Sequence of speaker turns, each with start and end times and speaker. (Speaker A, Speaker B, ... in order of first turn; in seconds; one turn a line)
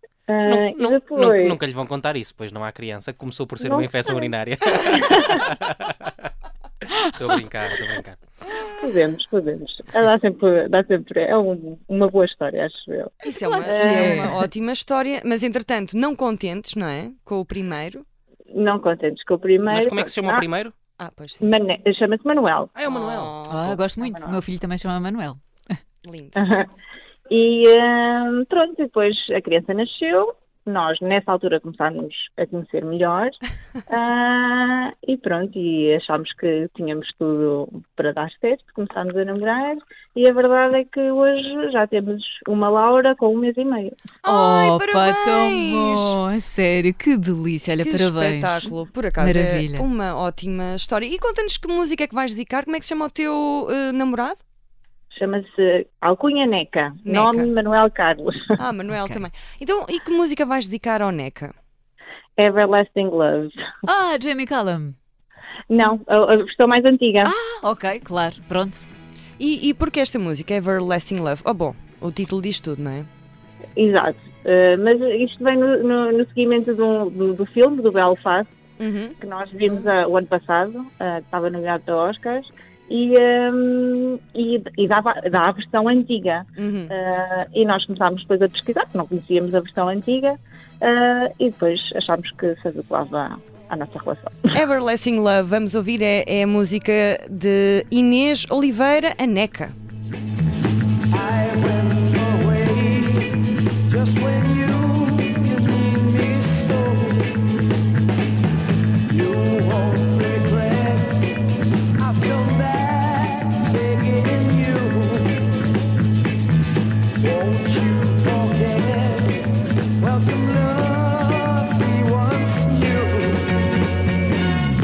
Speaker A: 0.3-1.6
Speaker B: 0.5-6.1
Speaker A: 3.6-5.5
Speaker B: 7.2-8.2
Speaker A: 8.6-14.4
Speaker C: 13.2-18.0
Speaker D: 13.4-14.5
Speaker A: 18.5-20.5
Speaker B: 19.7-20.8
Speaker C: 21.0-21.5
Speaker A: 21.4-22.7
Speaker B: 22.8-23.4
Speaker C: 22.9-23.7
Speaker D: 23.5-25.4
Speaker A: 24.0-24.4
Speaker C: 26.0-26.4
Speaker A: 26.4-26.7
Speaker A: 27.3-44.0
Speaker C: 44.2-46.2
Speaker D: 44.2-49.9
Speaker C: 47.8-54.4
Speaker A: 55.1-58.4
Speaker C: 57.0-57.5
Speaker C: 58.6-61.5
Speaker D: 59.0-59.2
Speaker A: 62.4-63.5
Speaker D: 63.9-65.0
Speaker A: 65.7-67.3
Speaker D: 67.2-68.8
Speaker C: 69.4-73.1
Speaker A: 73.8-78.5
Speaker C: 78.8-79.2
Speaker A: 79.2-94.6
Speaker C: 86.6-86.9
Speaker C: 94.5-99.8
Speaker E: 101.1-107.5
Speaker E: 109.1-111.4
Speaker E: 112.0-115.5
Speaker E: 117.2-123.7